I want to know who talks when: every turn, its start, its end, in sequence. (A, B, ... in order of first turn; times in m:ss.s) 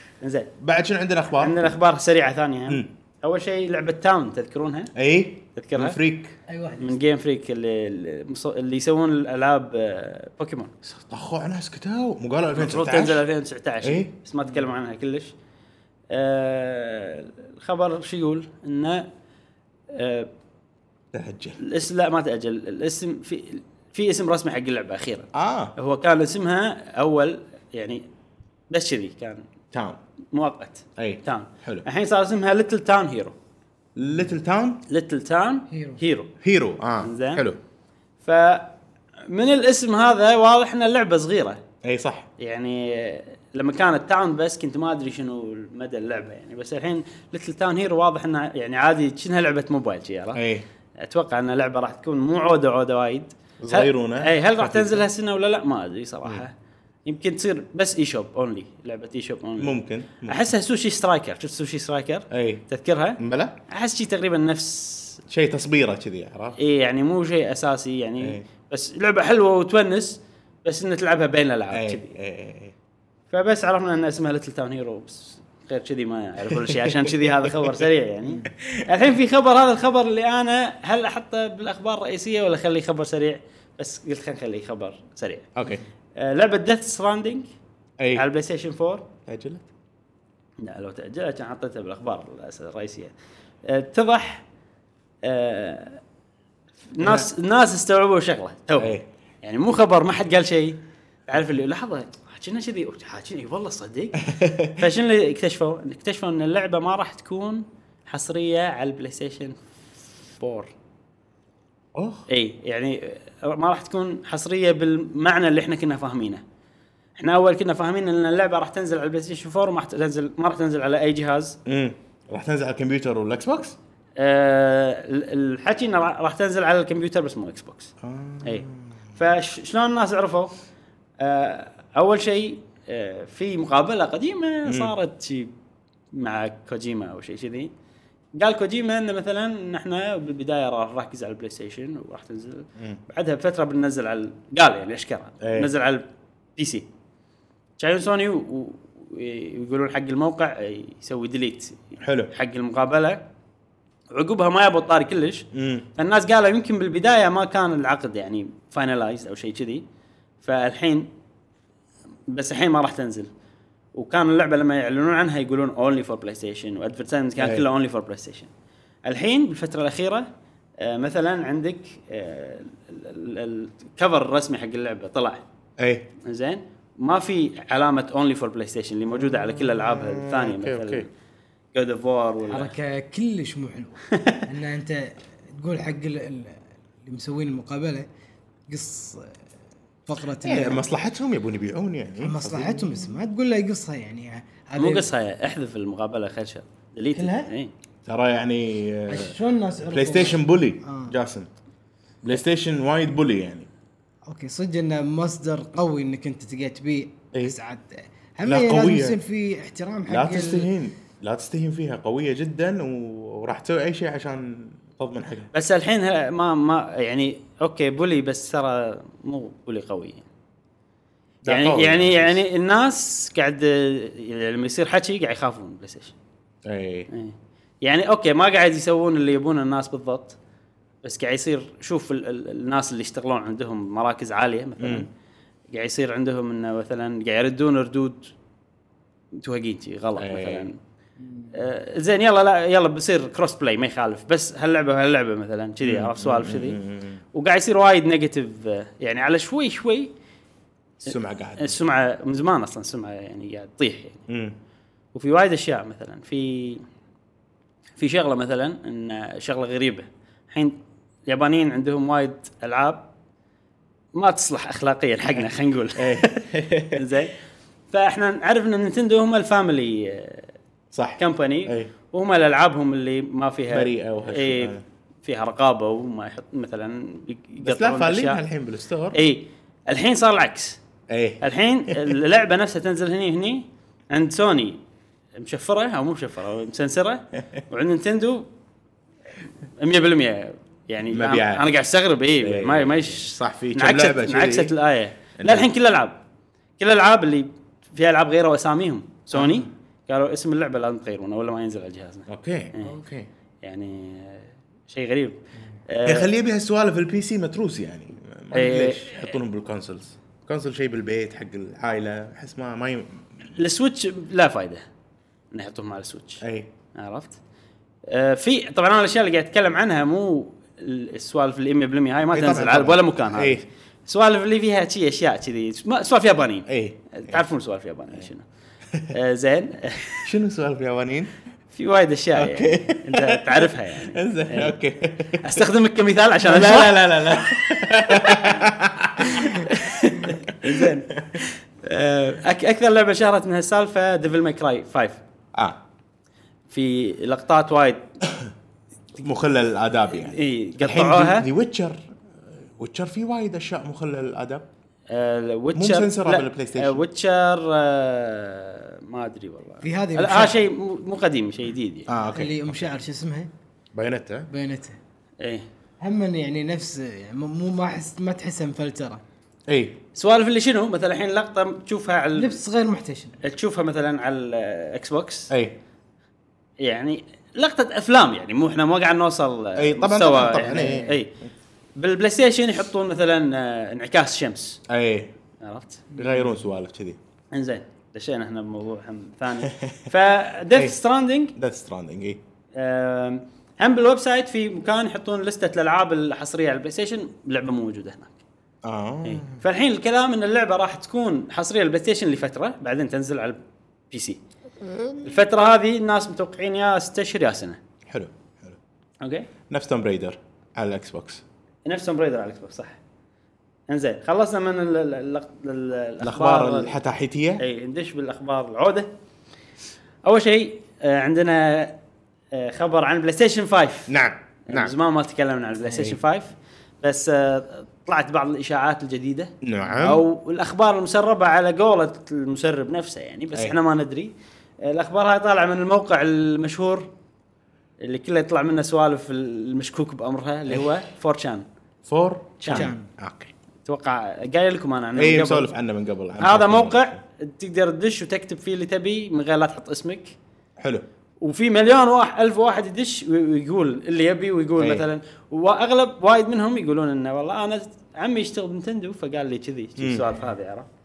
0:00.2-0:00.5 A
0:00.6-0:01.7 B
0:01.4-0:04.9 A
0:05.0-0:06.4 B
0:05.6-0:06.0 A
0:06.5-0:07.0 C
0:06.8-0:10.7 A
0:10.8-0:13.2 B
0:12.6-0:15.3 A
0:13.8-0:14.1 B
0:16.1-0:19.1 A
0:19.9-0:20.3 A
0:21.1-0:21.6 B
0:21.6-0:28.0 A
0:25.3-0:25.7 B
0:28.7-0:29.4 A
0:29.7-0:30.0 B
0:30.3-0:33.4 A
0:31.0-0:31.9 B
0:34.0-0:34.8 B
0:34.9-0:36.3 A
0:35.7-0:36.0 C
0:36.4-0:37.6 B
0:37.0-0:37.4 A
0:38.2-0:38.7 A
0:39.3-0:41.6 A
0:41.8-0:42.3 B
0:42.4-0:50.4 A
0:50.4-0:50.7 B
0:51.0-0:56.5 A
0:53.6-0:55.1 B
0:57.1-1:05.2 A
0:59.6-1:00.5 B
1:02.3-1:02.7 B
1:03.2-1:03.6 B
1:05.3-1:06.6 B
1:06.6-1:12.1 A
1:11.7-1:12.7 B
1:13.3-1:25.5 A
1:16.6-1:17.1 B
1:25.6-1:25.8 B
1:26.2-1:27.5 A
1:28.2-1:29.1 A
1:29.3-1:29.6 B
1:30.6-1:33.1 A
1:33.6-1:34.4 A
1:35.2-1:36.0 A
1:36.9-1:50.7 A
1:38.8-1:39.0 B
1:44.2-1:44.8 B
1:52.0-1:52.2 B
1:52.3-1:56.4 A
1:57.2-2:01.6 A
2:01.7-2:03.8 B
2:04.2-2:07.9 A
2:08.0-2:08.9 B
2:09.2-2:10.5 A
2:11.2-2:15.5 A
2:14.7-2:14.9 B
2:16.1-2:17.7 A
2:18.4-2:26.0 A
2:25.4-2:25.7 B
2:26.6-2:26.9 A
2:27.8-2:33.3 A
2:32.0-2:32.3 B
2:34.1-2:39.8 A
2:35.5-2:35.9 B
2:40.4-2:41.1 A
2:42.3-2:43.3 A
2:44.0-2:48.5 A
2:47.4-2:47.6 B
2:49.1-2:50.3 A
2:50.8-2:55.4 A
2:55.8-2:56.1 B
2:56.2-3:01.1 A
2:59.2-3:01.0 B
3:01.7-3:02.7 A
3:02.5-3:08.1 C
3:04.1-3:04.5 A
3:08.7-3:09.4 C
3:10.1-3:10.9 C
3:10.4-3:13.1 B
3:12.2-3:15.1 C
3:14.8-3:17.7 A
3:17.2-3:17.5 C
3:18.1-3:19.4 B
3:19.1-3:21.2 C
3:19.9-3:21.5 B
3:22.2-3:23.7 B
3:24.3-3:30.7 C
3:28.4-3:29.2 B
3:30.1-3:35.5 B
3:35.5-3:40.3 A
3:41.4-3:42.4 B
3:41.5-3:46.1 A
3:46.7-3:47.1 B
3:47.1-3:50.4 A
3:51.0-3:55.1 A
3:54.8-3:55.1 B
3:55.7-3:58.3 A
3:59.4-4:00.8 A
4:00.2-4:00.7 B
4:01.3-4:01.5 C
4:01.5-4:06.8 A
4:05.8-4:07.2 B
4:07.3-4:10.1 A
4:11.0-4:14.2 A
4:11.1-4:11.8 B
4:14.3-4:14.6 B
4:15.1-4:16.8 A
4:18.0-4:23.1 A
4:24.2-4:26.4 A
4:26.0-4:27.1 B
4:26.9-4:27.3 A
4:27.9-4:30.5 A
4:30.9-4:31.9 B
4:31.2-4:38.4 A
4:33.7-4:34.8 B
4:37.6-4:39.2 B
4:39.1-4:40.8 A
4:41.1-4:42.1 B
4:41.4-4:44.8 A
4:45.4-4:48.5 A
4:49.8-4:56.2 A
4:51.1-4:51.7 B
4:52.4-4:54.7 B
4:55.4-4:55.7 B
4:56.8-5:03.0 A
4:59.4-4:59.6 B
5:02.3-5:03.3 B
5:03.6-5:06.3 A
5:06.1-5:13.2 B
5:08.5-5:09.4 A
5:13.6-5:14.8 A
5:15.5-5:16.4 A
5:16.4-5:16.7 B
5:17.0-5:17.4 A
5:18.1-5:28.4 A
5:22.3-5:23.6 B
5:26.7-5:27.4 B
5:29.1-5:30.3 A
5:30.2-5:31.3 B
5:31.7-5:34.8 A
5:32.4-5:35.7 B
5:35.3-5:37.5 A
5:36.4-5:41.4 B
5:38.1-5:38.6 A
5:39.2-5:45.2 A
5:46.7-5:48.1 A
5:49.2-5:52.0 B
5:50.1-5:51.5 A
5:52.8-5:54.6 B
5:55.1-6:02.1 A
5:55.8-5:57.0 B
5:59.8-6:00.6 C
6:02.1-6:02.9 B
6:02.3-6:03.5 C
6:03.9-6:04.5 B
6:04.5-6:05.0 C
6:05.4-6:05.7 A
6:06.0-6:09.2 C
6:09.7-6:10.0 B
6:10.2-6:12.6 A
6:12.4-6:13.4 C
6:13.4-6:15.5 A
6:15.5-6:15.8 B
6:16.8-6:21.3 A
6:19.8-6:21.2 B
6:22.0-6:24.8 A
6:24.9-6:25.3 B
6:25.6-6:26.1 A
6:26.2-6:26.5 C
6:26.2-6:27.2 B
6:27.5-6:31.5 A
6:29.7-6:30.1 B
6:30.7-6:31.0 B
6:31.6-6:32.4 B
6:32.8-6:38.4 A
6:38.8-6:39.6 B
6:39.2-6:43.6 A
6:44.1-6:44.4 A
6:44.8-6:45.3 B
6:45.2-6:47.8 A
6:48.1-6:48.8 B
6:49.2-6:49.5 A
6:49.7-6:51.4 B
6:51.9-6:53.0 A
6:53.9-6:57.0 A
6:56.2-6:57.6 B
6:57.6-6:59.1 A
7:00.3-7:02.0 A
7:02.5-7:04.1 A
7:04.1-7:04.9 B
7:04.7-7:17.1 A
7:05.8-7:06.2 B
7:09.6-7:10.2 B
7:18.0-7:21.6 A
7:22.0-7:23.5 B
7:22.6-7:22.9 A
7:22.7-7:23.1 C
7:23.9-7:25.7 A
7:25.2-7:27.2 B
7:26.4-7:30.4 A
7:30.8-7:31.1 B
7:31.4-7:40.9 A
7:34.8-7:35.0 B
7:40.0-7:40.2 B